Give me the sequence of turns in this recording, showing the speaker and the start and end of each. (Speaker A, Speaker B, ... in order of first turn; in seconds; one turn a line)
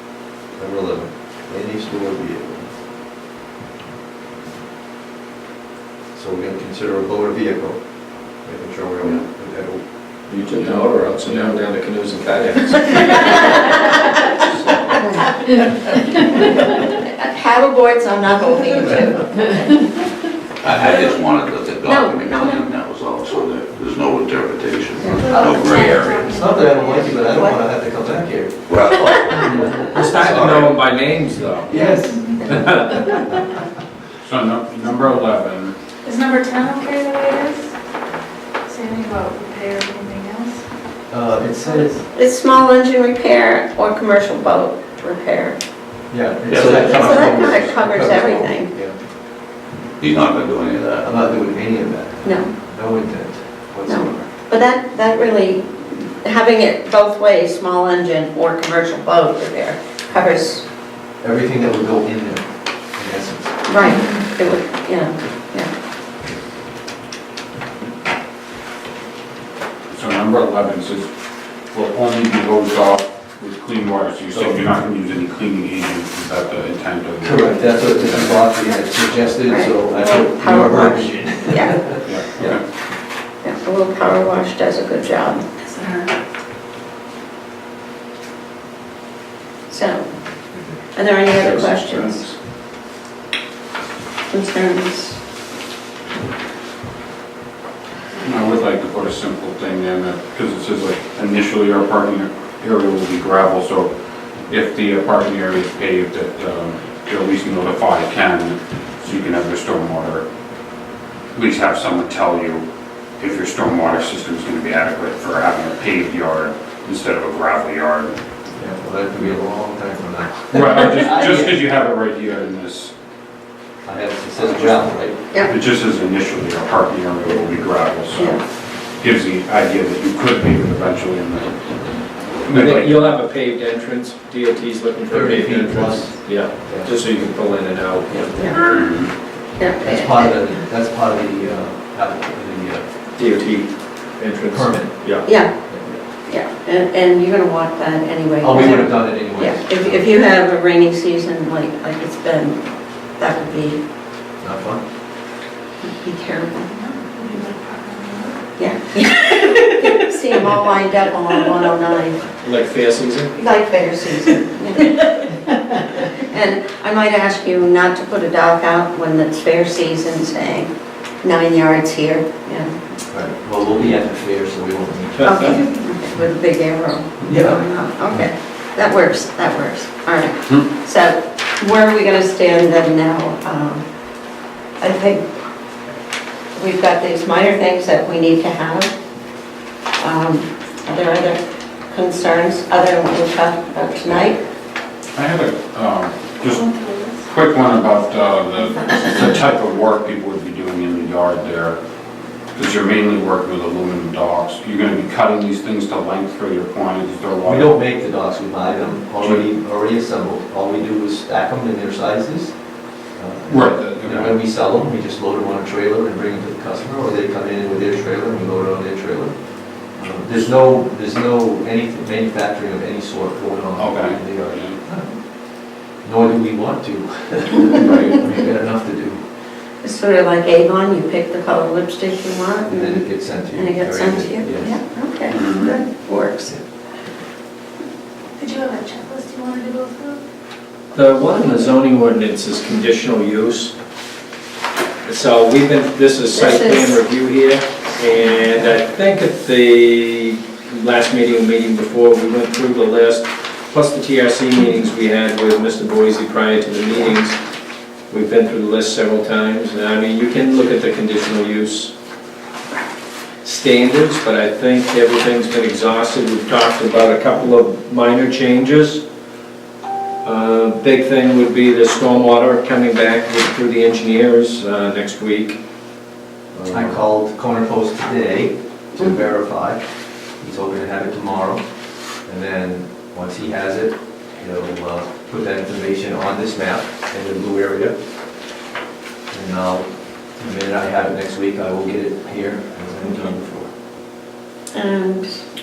Speaker A: 0.6-2.7
Speaker A: 6.1-7.8
Speaker A: 8.4-9.8
Speaker B: 10.3-15.0
Speaker C: 10.5-11.6
Speaker A: 12.4-13.0
Speaker D: 16.7-19.7
Speaker E: 20.6-26.4
Speaker D: 21.8-22.6
Speaker D: 25.0-25.9
Speaker F: 25.1-27.3
Speaker A: 26.2-30.8
Speaker E: 28.7-29.9
Speaker B: 29.9-31.8
Speaker A: 31.7-32.9
Speaker F: 31.9-32.3
Speaker B: 32.5-33.2
Speaker C: 34.2-35.8
Speaker F: 36.0-37.7
Speaker F: 38.7-40.6
Speaker A: 41.1-41.9
Speaker F: 41.6-41.9
Speaker D: 42.1-45.6
Speaker A: 46.1-49.0
Speaker E: 46.5-47.3
Speaker D: 46.7-48.7
Speaker E: 50.0-51.1
Speaker A: 51.0-54.3
Speaker D: 52.2-52.5
Speaker D: 53.9-60.6
Speaker A: 61.2-63.6
Speaker D: 63.7-65.7
Speaker F: 63.9-64.2
Speaker C: 69.9-71.1
Speaker C: 71.7-78.4
Speaker A: 74.3-74.6
Speaker A: 77.2-82.6
Speaker D: 79.5-81.8
Speaker C: 82.0-82.6
Speaker D: 83.4-85.4
Speaker F: 85.6-86.1
Speaker D: 89.7-90.0
Speaker D: 90.9-92.3
Speaker D: 94.3-95.2
Speaker C: 98.2-103.9
Speaker C: 104.5-110.2
Speaker C: 111.3-112.6
Speaker C: 113.2-118.2
Speaker A: 118.5-121.6
Speaker C: 120.5-122.9
Speaker A: 123.8-125.2
Speaker C: 124.4-124.9
Speaker C: 125.4-128.4
Speaker D: 128.1-128.4
Speaker C: 129.0-131.7
Speaker C: 132.4-133.1
Speaker B: 132.5-138.5
Speaker A: 135.1-136.9
Speaker D: 138.4-138.8
Speaker C: 138.6-139.1
Speaker D: 139.6-140.3
Speaker A: 139.8-142.8
Speaker B: 143.2-145.4
Speaker A: 144.5-145.0
Speaker D: 145.2-145.5
Speaker A: 145.7-145.9
Speaker D: 146.2-152.6
Speaker A: 148.4-150.1
Speaker D: 153.2-153.8
Speaker A: 154.4-154.8
Speaker D: 155.8-156.8
Speaker F: 156.8-158.4
Speaker D: 158.6-162.2
Speaker B: 162.4-163.3
Speaker D: 163.3-165.1
Speaker D: 166.2-170.7
Speaker D: 171.2-172.7
Speaker A: 173.1-175.6
Speaker D: 175.2-183.8
Speaker A: 177.2-177.7
Speaker D: 184.8-185.2
Speaker D: 186.6-188.9
Speaker D: 190.0-194.4
Speaker C: 195.1-196.7
Speaker F: 196.4-197.2
Speaker C: 197.2-201.8
Speaker C: 202.5-207.7
Speaker A: 207.4-212.5
Speaker A: 213.2-219.3
Speaker C: 213.5-214.3
Speaker A: 219.9-225.2
Speaker C: 223.8-224.8
Speaker A: 226.0-229.2
Speaker C: 227.8-228.2
Speaker D: 229.8-236.6
Speaker A: 232.7-234.8
Speaker C: 235.3-235.7
Speaker F: 238.4-240.2
Speaker B: 240.9-243.7
Speaker B: 245.0-257.4
Speaker D: 246.3-246.9
Speaker B: 258.1-261.9
Speaker B: 263.4-269.0
Speaker B: 270.2-275.6
Speaker A: 276.7-279.8
Speaker A: 280.4-281.6
Speaker A: 282.2-287.9
Speaker A: 289.3-293.7
Speaker D: 294.7-295.4